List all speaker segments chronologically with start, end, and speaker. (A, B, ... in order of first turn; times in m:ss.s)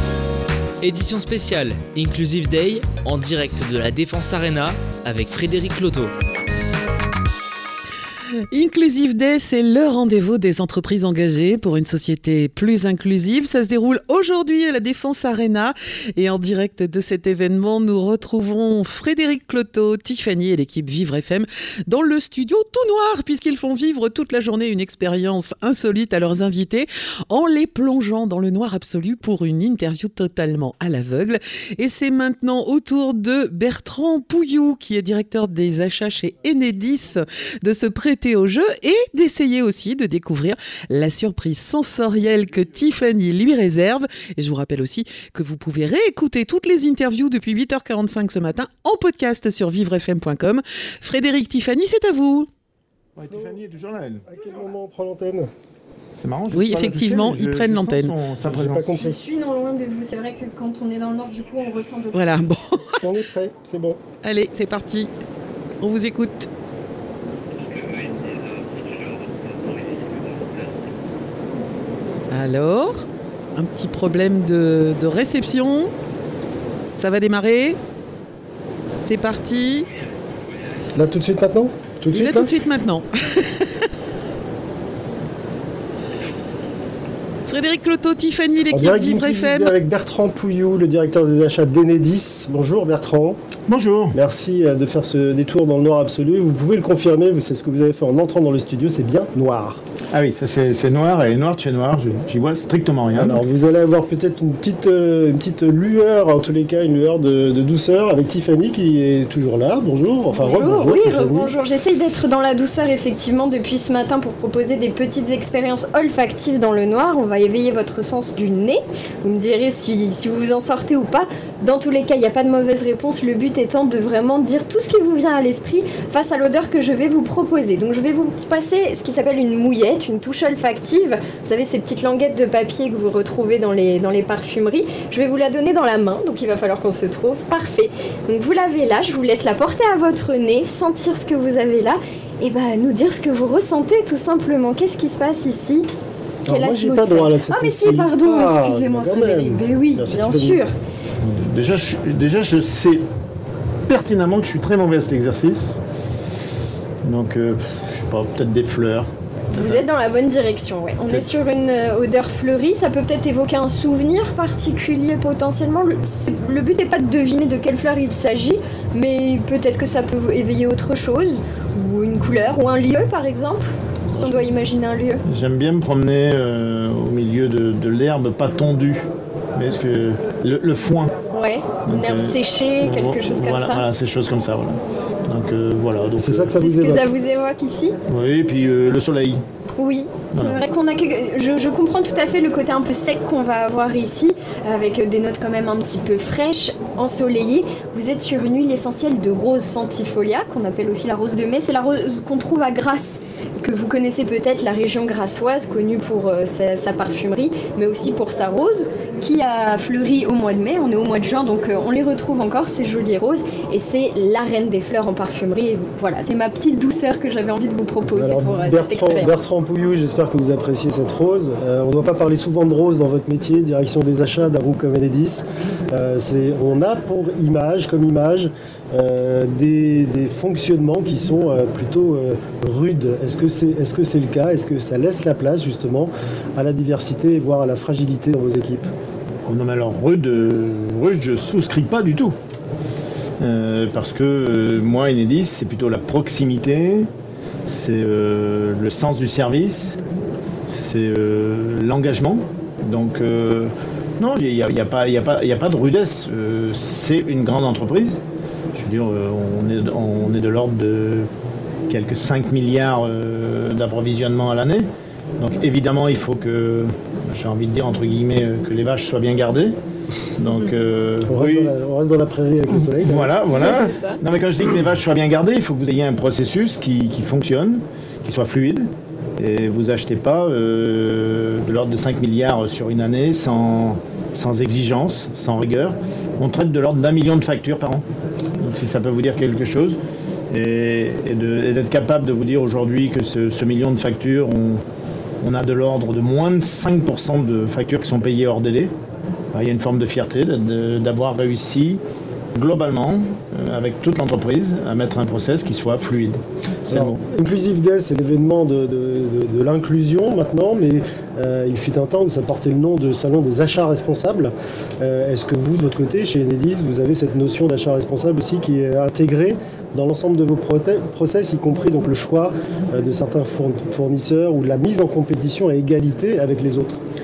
0:00.8-0:06.1 A
0:08.5-0:52.5 B
0:53.2-0:54.2 C
0:54.2-0:55.5 D
0:56.2-0:59.0 C
0:56.5-0:58.1 B
0:58.4-0:59.2 D
0:58.9-1:02.5 E
1:02.1-1:03.0 B
1:03.0-1:04.0 D
1:04.2-1:05.1 B
1:05.8-1:06.5 B
1:12.3-1:15.9 B
1:17.0-1:17.8 B
1:19.0-1:19.9 B
1:20.9-1:22.5 D
1:22.1-1:23.9 B
1:27.5-1:29.7 B
1:28.7-1:33.4 D
1:33.7-1:34.2 C
1:34.1-1:39.8 D
1:40.1-1:43.4 C
1:43.1-1:51.5 D
1:50.3-2:25.9 E
2:26.4-2:30.6 D
2:26.5-2:30.7 E
2:31.2-2:33.0 C
2:33.9-2:35.8 C
2:37.0-2:39.8 C
2:39.5-2:55.2 E
2:55.3-3:01.1 C
3:01.3-3:03.8 E
3:01.8-3:06.6 C
3:06.2-3:07.0 D
3:06.6-3:08.0 E
3:08.1-3:09.4 C
3:09.8-3:39.3 E
3:10.3-3:10.6 C
3:38.1-3:58.9 D
3:59.4-4:02.4 C
4:03.4-4:07.1 C
4:07.6-4:10.0 C
4:10.7-4:18.2 C
4:18.7-4:21.3 C
4:21.9-4:24.9 C
4:25.4-4:29.8 C
4:30.4-4:31.7 C
4:31.2-4:33.4 D
4:32.9-4:48.0 C
4:33.5-4:34.2 E
4:48.6-4:50.0 C
4:50.5-4:54.8 C
4:55.4-4:58.9 C
4:59.5-5:02.0 C
5:02.5-5:07.2 C
5:06.9-5:27.0 D